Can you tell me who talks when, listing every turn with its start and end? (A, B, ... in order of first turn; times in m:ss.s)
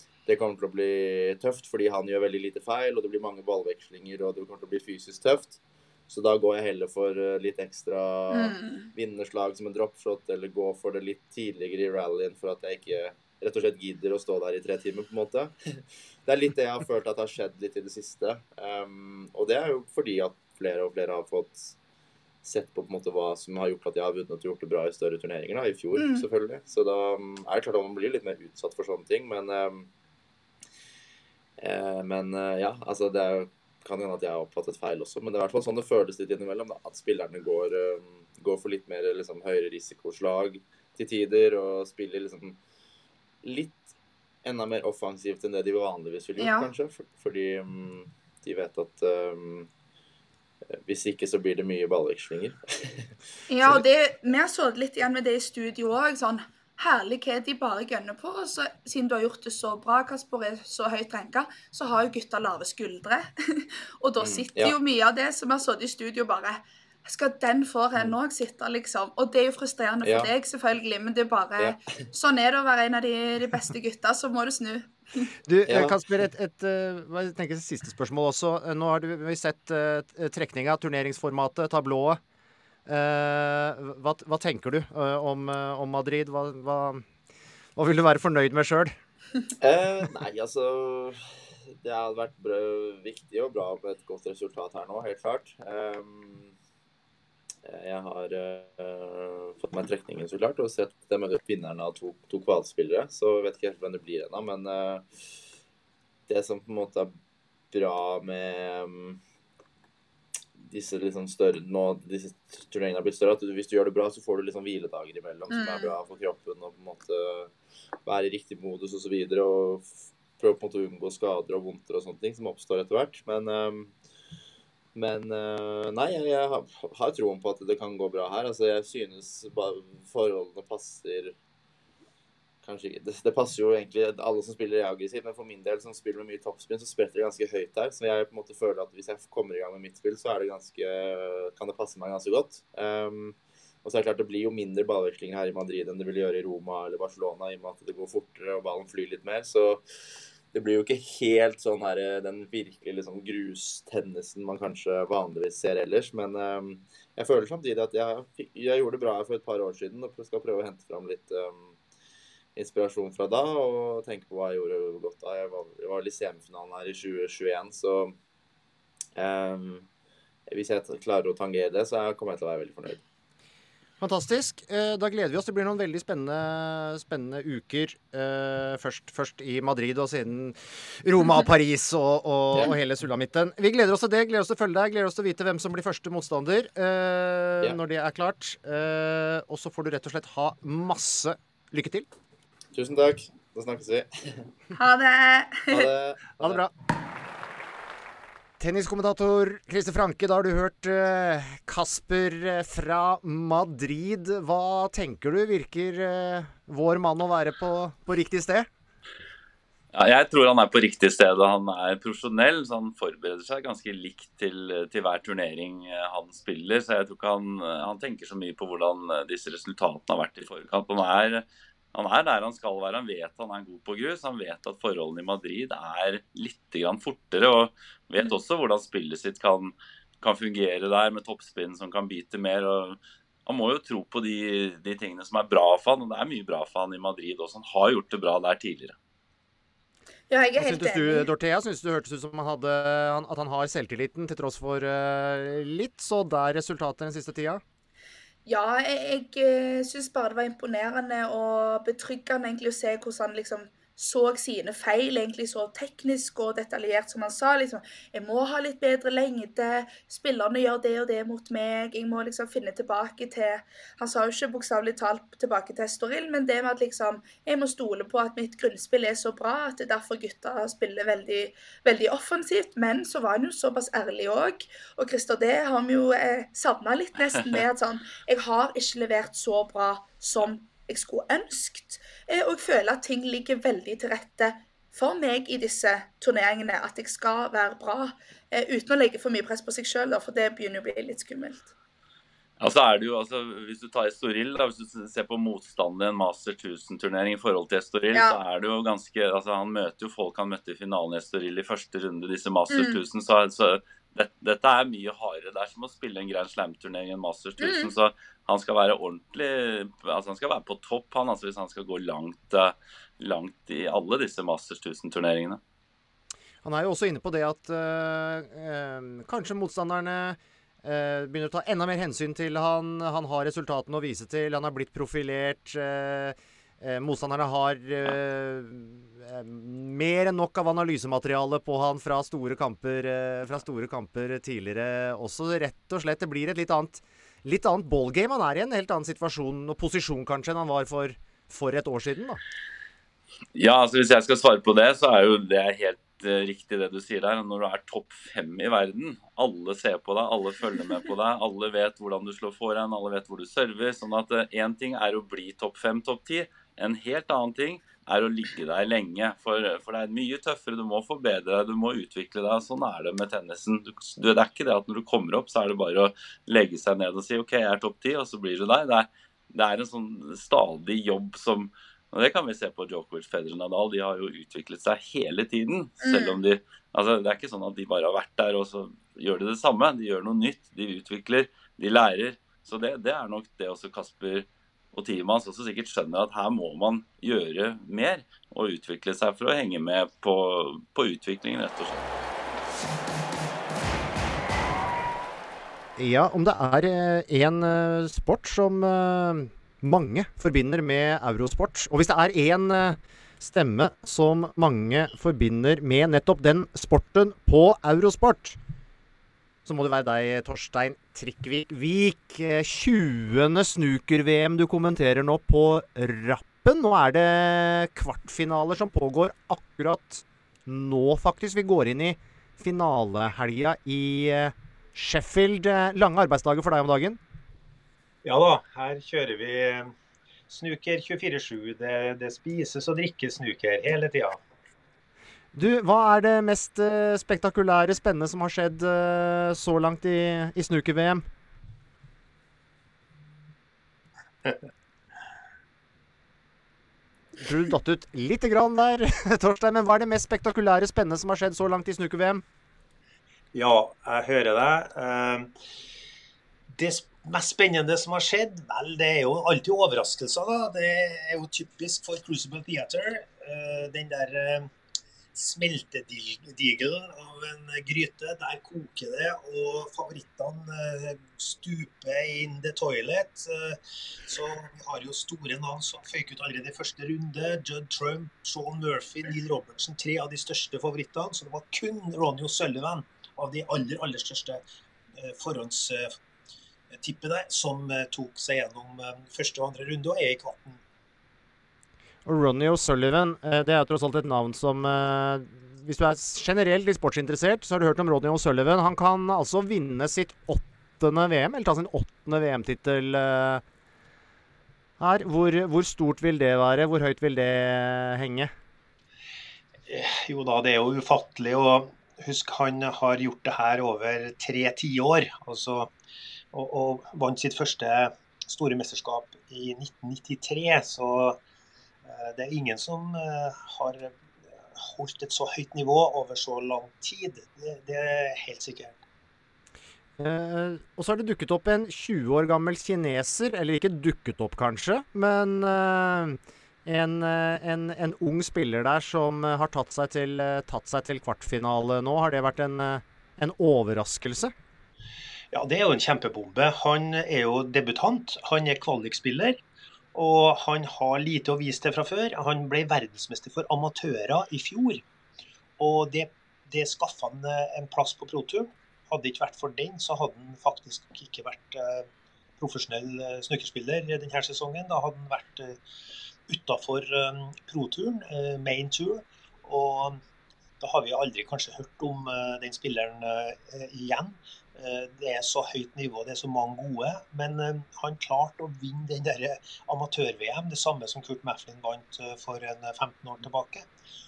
0:00.3-0:21.8 A
0:08.3-0:08.9 B
0:22.4-0:29.9 A
0:26.0-0:26.2 B
0:31.6-0:42.6 A
0:43.4-0:43.9 A
0:44.4-0:49.7 A
0:46.4-0:46.7 B
0:50.7-0:53.1 A
0:53.5-1:14.9 B
1:04.2-1:04.8 A
1:10.0-1:10.3 A
1:15.5-1:22.2 C
1:15.7-1:16.0 A
1:22.9-1:27.0 C
1:27.8-1:29.0 C
1:29.6-1:31.2 A
1:31.8-1:36.5 A
1:37.6-1:45.0 A
1:46.3-1:47.1 A
1:47.7-1:49.2 A
1:50.6-1:57.5 A
1:55.5-1:55.9 B
1:58.0-2:03.9 A
2:05.0-2:11.4 A
2:12.6-2:29.8 A
2:30.5-2:41.8 A
2:42.6-2:48.2 A
2:49.2-2:49.9 A
2:50.5-2:53.0 A
2:54.0-3:12.1 C
3:12.7-3:14.5 A
3:14.8-3:15.9 B
3:15.7-3:16.7 A
3:16.4-3:16.7 C
3:18.6-3:28.7 C
3:29.9-3:58.9 D
4:00.3-4:01.3 B
4:00.6-4:07.6 C
4:08.5-4:51.7 B
4:52.6-5:15.6 D
4:58.1-4:58.4 B
5:02.7-5:03.0 B
5:07.6-5:07.9 B
5:16.6-5:42.4 C
5:43.6-6:32.1 D
6:16.0-6:16.4 B
6:36.0-6:48.6 C
6:49.6-7:07.2 C
7:08.2-7:09.9 E
7:10.5-7:14.4 E
7:15.6-7:21.3 C
7:27.4-7:32.4 C
7:33.5-7:35.5 E
7:36.7-7:44.7 E
7:45.4-8:04.6 E
8:05.2-8:06.1 E
8:06.9-8:10.8 E
8:12.2-8:23.6 C
8:25.0-8:28.5 C
8:29.9-8:35.9 E
8:36.5-8:41.4 E
8:42.0-8:44.1 E
8:44.8-8:49.0 E
8:50.2-9:04.5 C
9:05.5-9:09.6 E
9:10.1-9:15.0 E
9:15.8-9:22.1 E
9:22.6-9:25.8 E
9:26.5-9:30.2 E
9:30.8-9:43.9 E